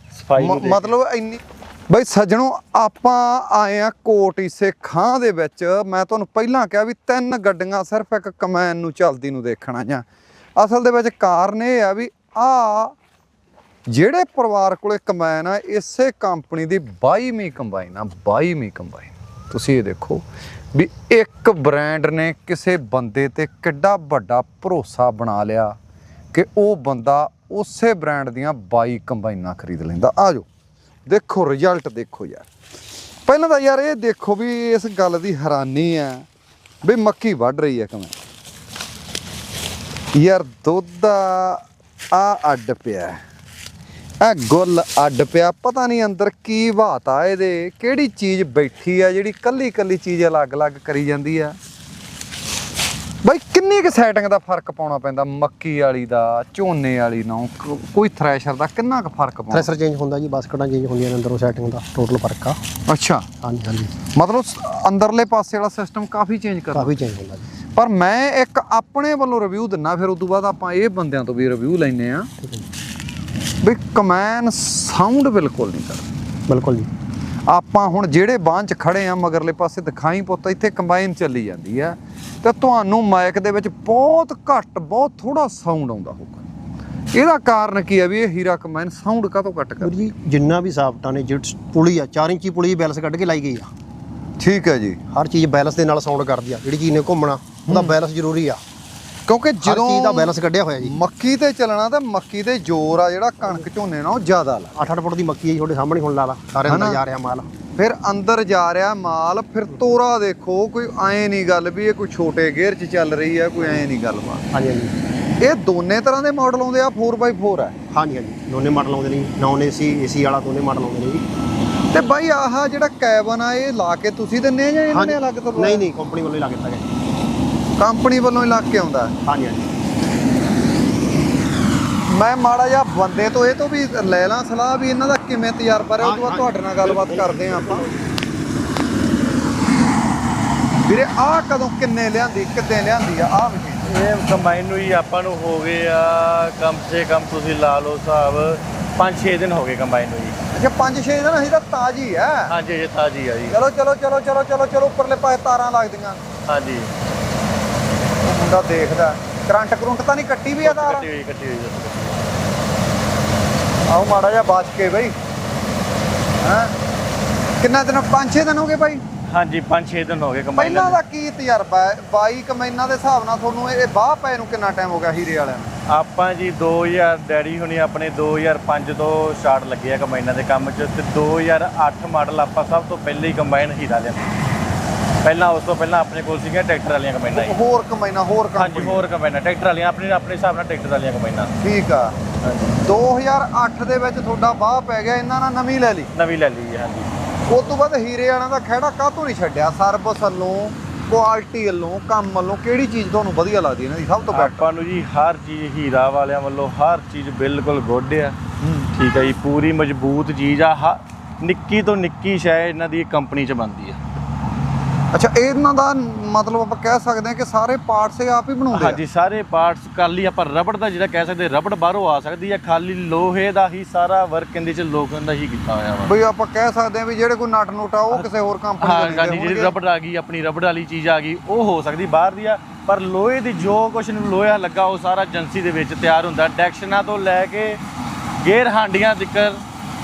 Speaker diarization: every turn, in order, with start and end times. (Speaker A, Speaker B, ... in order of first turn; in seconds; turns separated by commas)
Speaker A: 0.1-0.9, Speaker B: 0.4-10.1, Speaker B: 10.6-12.9, Speaker B: 13.9-25.8, Speaker B: 26.3-30.5, Speaker B: 31.1-32.5, Speaker B: 33.3-36.2, Speaker B: 36.8-38.1, Speaker B: 40.1-41.6, Speaker B: 42.1-43.2, Speaker B: 44.2-51.6, Speaker B: 53.2-59.7, Speaker C: 59.5-62.6, Speaker B: 62.9-63.3, Speaker C: 63.4-63.9, Speaker B: 64.1-67.0, Speaker C: 66.8-67.4, Speaker B: 67.8-72.3, Speaker B: 73.6-76.0, Speaker C: 76.5-76.9, Speaker B: 77.5-86.4, Speaker B: 87.1-90.1, Speaker C: 89.8-93.7, Speaker B: 94.4-95.0, Speaker C: 95.1-98.6, Speaker B: 97.7-98.0, Speaker B: 99.3-104.8, Speaker C: 99.6-101.0, Speaker C: 104.8-107.5, Speaker B: 106.7-107.0, Speaker B: 107.8-114.5, Speaker C: 113.6-113.8, Speaker C: 114.5-114.9, Speaker B: 115.4-117.8, Speaker C: 117.9-121.2, Speaker B: 121.9-125.9, Speaker C: 124.9-126.8, Speaker B: 127.8-129.1, Speaker C: 129.2-129.7, Speaker B: 132.1-137.8, Speaker C: 136.0-137.9, Speaker B: 140.8-143.9, Speaker A: 143.8-150.4, Speaker B: 150.5-152.5, Speaker A: 152.5-153.6, Speaker B: 153.5-156.2, Speaker A: 156.5-156.9, Speaker B: 158.2-161.1, Speaker A: 160.6-162.2, Speaker B: 163.9-165.2, Speaker B: 166.4-166.7, Speaker B: 167.6-169.0, Speaker A: 169.3-171.0, Speaker B: 170.6-175.7, Speaker A: 175.9-184.3, Speaker A: 185.2-187.6, Speaker B: 187.3-189.0, Speaker A: 188.6-191.5, Speaker B: 191.6-192.2, Speaker A: 192.4-192.8, Speaker B: 192.8-196.1, Speaker A: 196.1-197.2, Speaker B: 197.5-204.7, Speaker A: 204.3-208.4, Speaker B: 208.6-208.9, Speaker A: 208.9-214.0, Speaker B: 215.1-219.0, Speaker A: 218.7-226.2, Speaker B: 226.1-229.7, Speaker A: 228.8-237.8, Speaker A: 238.4-239.6